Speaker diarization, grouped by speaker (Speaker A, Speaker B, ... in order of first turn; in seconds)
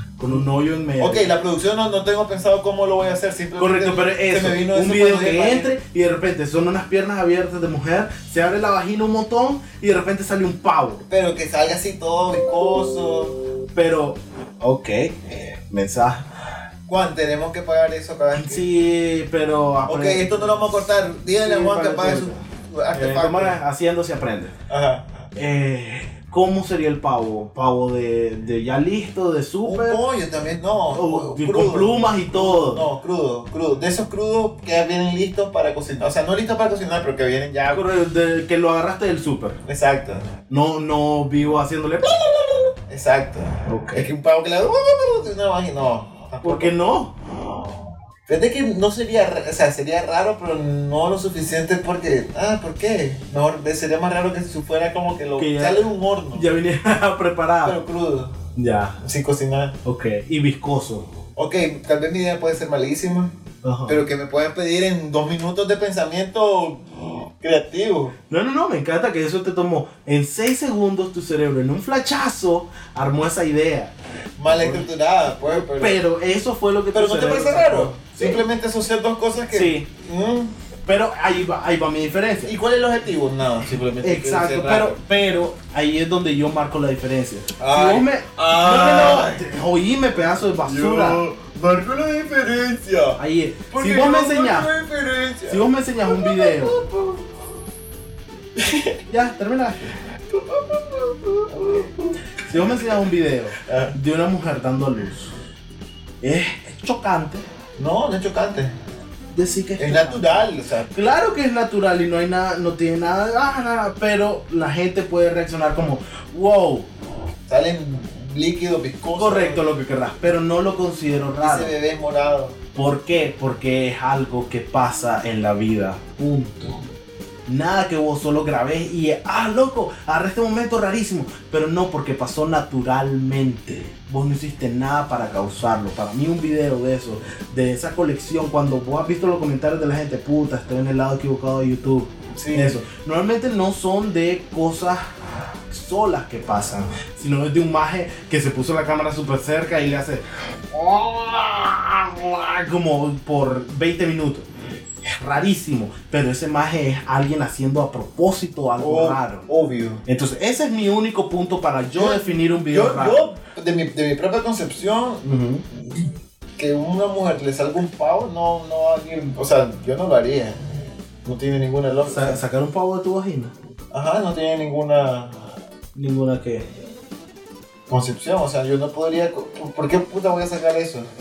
Speaker A: 0.2-1.3, 3.6-11.1, 13.8-15.2, 15.7-16.2, 18.4-24.5, 25.4-30.0, 30.9-32.9, 37.7-39.6, 40.5-42.7, 43.7-44.1, 46.4-47.1, 55.4-57.8, 58.6-59.0, 59.9-61.1, 63.6-64.0, 68.3-73.9, 74.5-74.9, 75.5-78.4, 79.5-79.9, 80.9-82.5, 84.0-91.2, 93.2-94.7, 95.5-96.8, 99.1-99.9, 102.5-105.3, 106.2-107.5, 109.3-116.9, 119.2-121.7, 122.8-126.8, 127.5-145.0, 145.7-154.5, 155.1-159.5, 160.1-163.3, 165.2-165.6, 172.1-173.5, 176.0-176.7
Speaker B: 1.0-5.7, 11.1-13.3, 16.9-18.7, 19.9-23.6, 24.7-25.1, 29.6-37.9, 39.6-40.2, 42.9-46.8, 48.3-56.5, 57.6-58.4, 59.0-59.8, 61.4-63.3, 63.9-66.8, 67.4-68.2, 74.4-76.0, 76.9-80.5, 82.5-85.0, 87.6-89.6, 90.6-93.2, 93.7-97.2, 98.6-99.0, 100.3-103.0, 103.6-104.0, 107.8-108.7, 109.8-110.9, 117.5-119.7, 121.4-122.6, 142.3-142.8, 158.8-160.0, 162.0-165.2, 166.6-170.6, 171.2-172.4, 173.9-175.3, 177.9-181.1